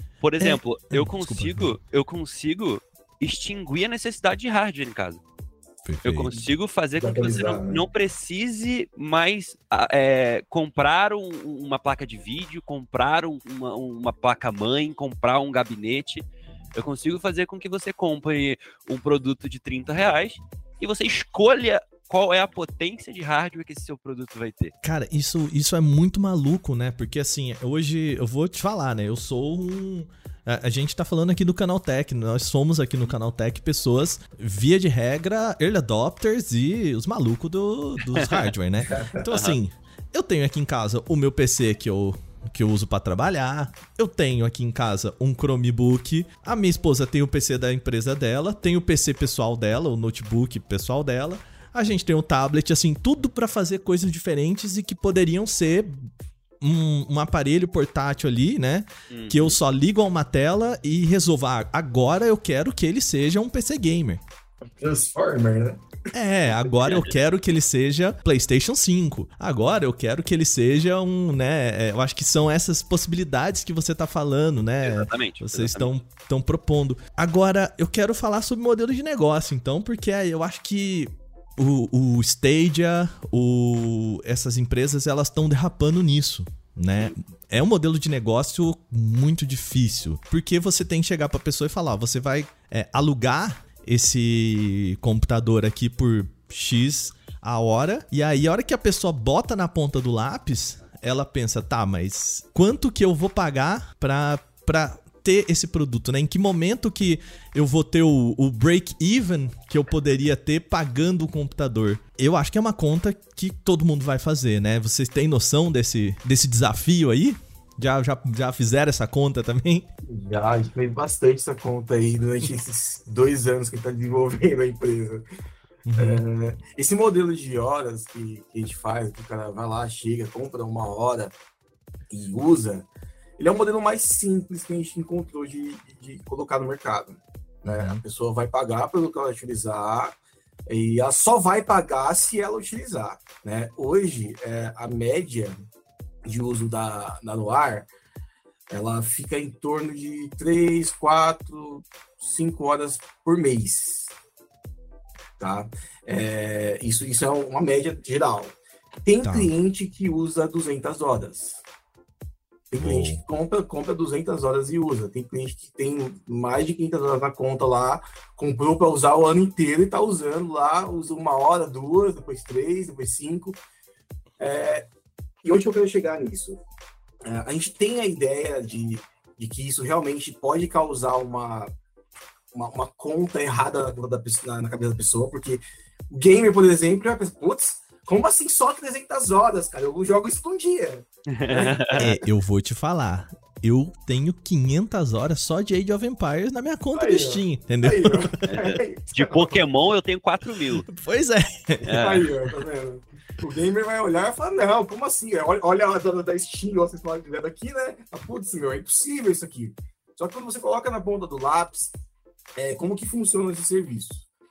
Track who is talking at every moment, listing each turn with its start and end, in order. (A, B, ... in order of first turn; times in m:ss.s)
0:00.2-0:05.2 A
0:00.4-0:01.7 B
0:05.8-0:06.3 B
0:06.0-0:24.7 A
0:07.0-0:07.8 C
0:24.8-0:56.1 B
0:38.0-0:38.5 A
0:38.9-0:39.2 C
0:39.3-0:39.6 A
0:56.6-1:04.2 B
0:59.1-0:59.6 A
1:04.8-1:05.8 C
1:06.1-1:59.9 B
1:06.8-1:07.1 A
1:14.8-1:15.9 A
2:00.1-2:05.2 C
2:05.9-2:06.2 B
2:06.0-2:11.3 C
2:12.1-2:20.2 C
2:17.7-2:18.0 B
2:20.7-2:25.6 C
2:26.3-2:27.9 C
2:28.7-2:34.1 C
2:35.4-2:41.6 C
2:39.2-2:39.5 B
2:42.7-2:53.6 C
2:42.8-2:43.2 B
2:54.4-2:54.9 C
2:55.4-2:56.6 C
2:57.2-3:01.7 C
3:02.5-3:12.2 C
3:11.3-3:12.1 A
3:12.0-3:18.4 B
3:17.0-3:19.6 C
3:18.4-3:20.9 A
3:20.9-3:22.3 B
3:21.8-3:22.2 A
3:21.9-3:32.0 C
3:32.6-3:34.3 C